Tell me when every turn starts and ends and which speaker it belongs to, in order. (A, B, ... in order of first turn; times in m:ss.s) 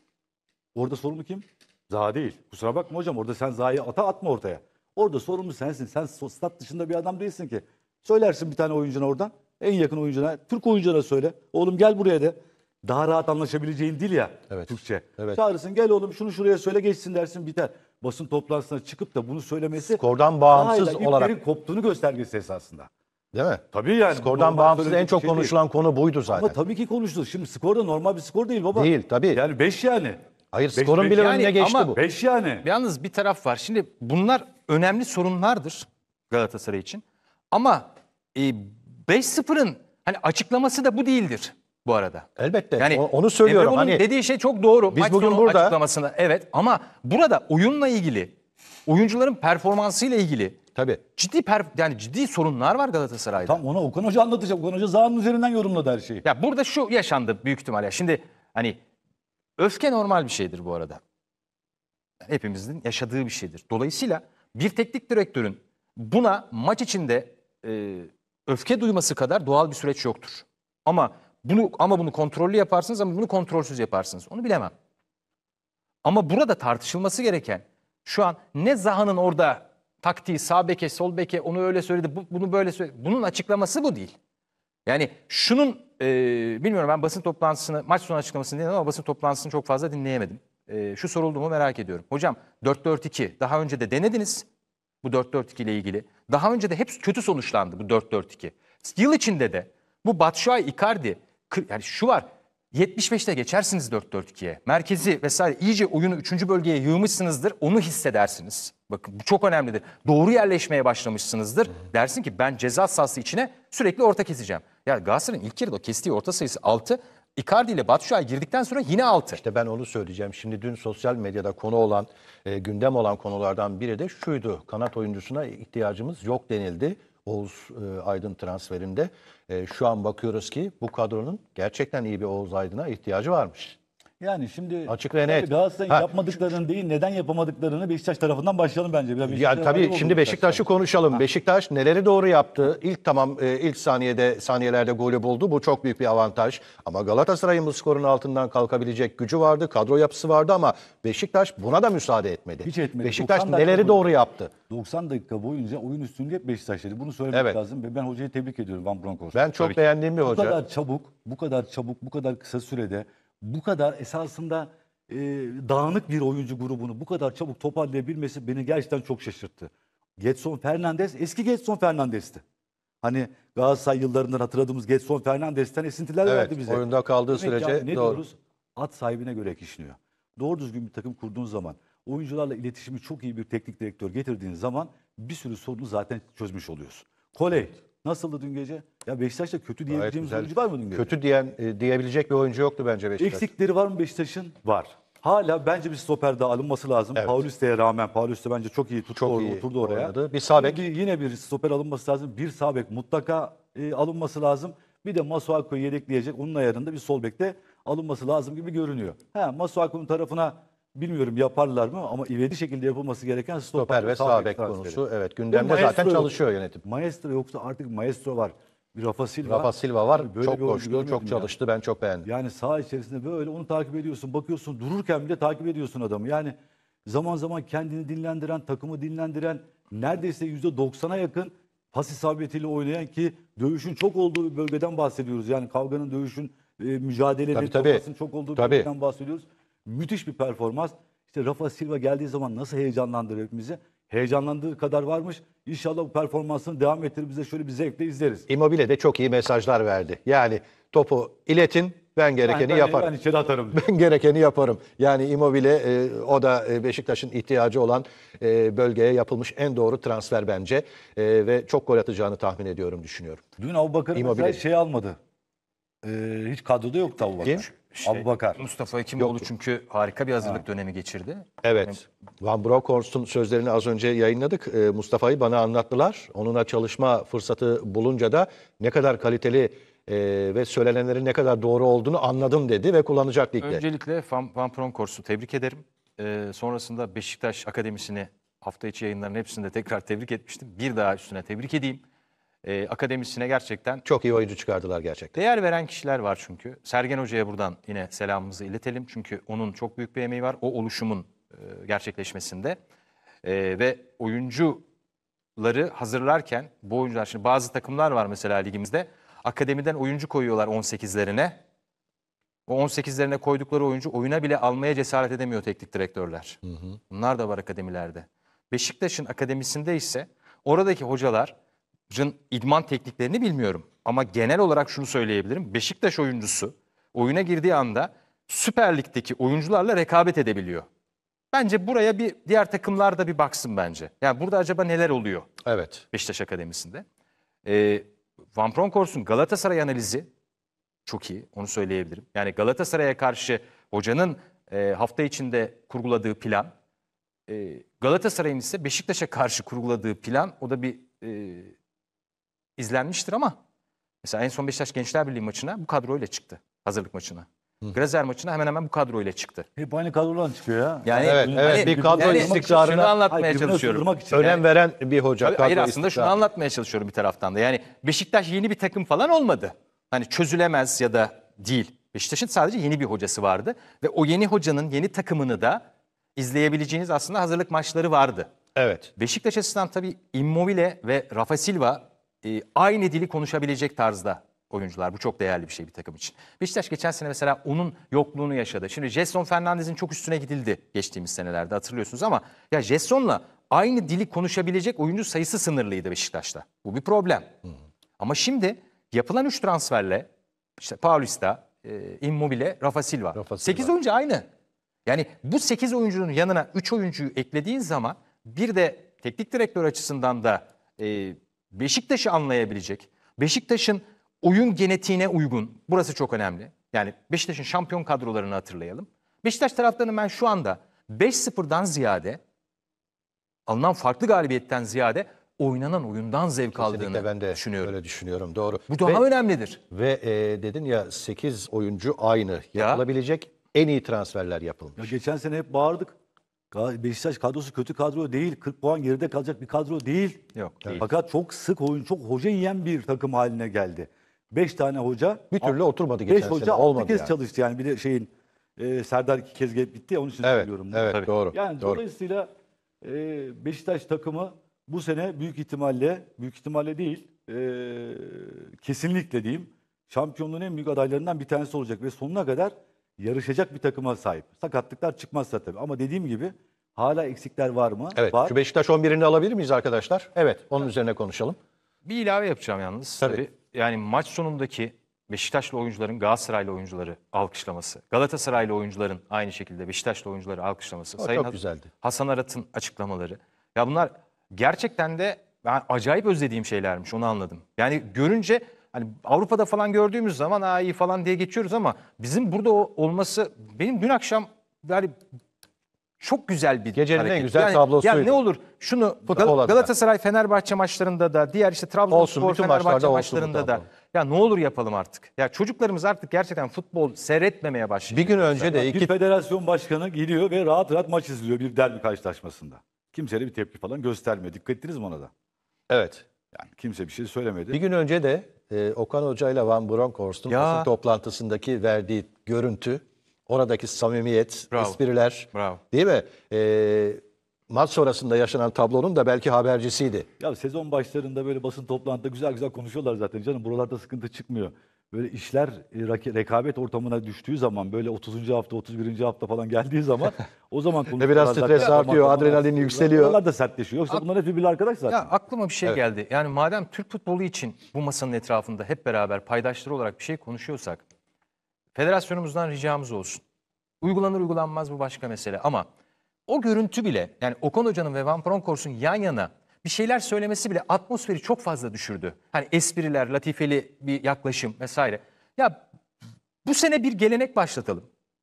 0:00.7-0:22.9 A
0:14.5-0:15.4 B
0:19.8-0:21.3 B
0:23.3-0:26.6 B
0:23.7-0:25.5 A
0:26.3-0:30.2 A
0:28.7-0:29.4 B
0:30.5-0:32.0 B
0:30.7-0:31.4 A
0:31.1-0:31.9 C
0:31.9-0:32.6 A
0:32.6-0:42.3 C
0:42.4-0:44.0 B
0:42.8-0:48.3 C
0:44.9-0:45.8 B
0:48.8-0:50.6 C
0:50.7-0:51.0 B
0:51.2-0:53.6 C
0:53.4-0:56.2 A
0:56.2-0:58.8 C
0:59.6-1:01.0 C
1:02.2-1:14.7 C
1:16.0-1:24.2 C
1:24.8-1:34.4 C
1:35.0-1:59.4 C
1:59.3-2:13.8 B
2:14.2-2:21.2 A
2:14.9-2:16.1 B
2:19.2-2:34.5 B
2:32.6-2:34.0 A
2:34.7-2:52.4 A
2:37.3-2:37.6 B
2:39.3-2:40.6 B
2:53.0-3:11.1 A
2:56.2-2:58.2 B
3:09.9-3:13.5 B
3:13.2-3:36.3 A
3:19.2-3:20.8 B
3:33.8-3:36.8 B
3:36.8-3:41.5 A
3:39.4-3:42.3 B
3:42.2-4:08.5 A
3:57.5-3:58.0 B
3:58.6-3:58.9 B
4:08.5-4:13.1 B
4:12.5-4:13.8 A
4:13.7-4:23.4 B
4:23.6-4:25.2 A
4:24.1-4:24.6 B
4:26.0-4:28.6 A
4:27.7-4:32.0 C
4:29.2-4:29.4 B
4:31.6-4:43.8 B
4:43.6-4:52.0 C
4:52.6-4:54.0 C
4:54.0-4:55.3 B
4:55.3-5:02.8 C
5:03.4-5:04.8 C
5:05.6-5:11.6 C
5:12.7-5:21.5 C
5:22.1-5:30.8 C
5:31.5-5:35.5 C
5:35.6-5:36.0 B
5:36.1-5:37.0 C
5:37.6-5:40.3 C
5:41.0-5:46.7 C
5:47.5-5:51.7 C
5:52.8-5:53.6 C
5:54.2-5:59.6 C
5:59.8-6:04.6 A
6:01.0-6:04.1 C
6:01.2-6:03.0 B
6:04.3-6:06.3 B
6:05.4-6:15.8 C
6:16.4-6:18.5 C
6:18.8-6:19.1 B
6:19.2-6:37.5 C
6:38.2-6:40.3 C
6:40.8-6:44.4 C
6:43.4-6:43.9 B
6:45.0-7:02.4 C
7:03.7-7:07.9 C
7:06.7-7:09.2 B
7:08.9-7:09.8 C
7:09.9-7:15.1 B
7:12.7-7:13.0 C
7:15.0-7:16.1 A
7:16.7-7:25.7 A
7:20.6-7:21.0 C
7:25.5-7:27.3 B
7:26.3-7:32.5 A
7:30.4-7:32.0 B
7:33.0-7:48.5 A
7:48.2-7:51.6 B
7:52.0-8:15.2 C
8:01.2-8:01.9 B
8:16.2-8:28.7 C
8:16.9-8:18.3 B
8:19.2-8:19.9 B
8:22.1-8:23.8 B
8:28.1-8:29.1 B
8:28.7-8:35.3 A
8:35.9-8:36.2 B
8:36.5-8:37.8 A
8:37.7-8:50.3 B
8:40.5-8:40.9 C
8:44.7-8:45.0 C
8:45.5-8:45.8 C
8:50.4-9:05.3 A
9:01.2-9:03.4 B
9:05.1-9:11.0 C
9:11.9-9:13.4 C
9:14.0-9:15.9 C
9:16.5-9:25.8 C
9:26.6-9:28.1 C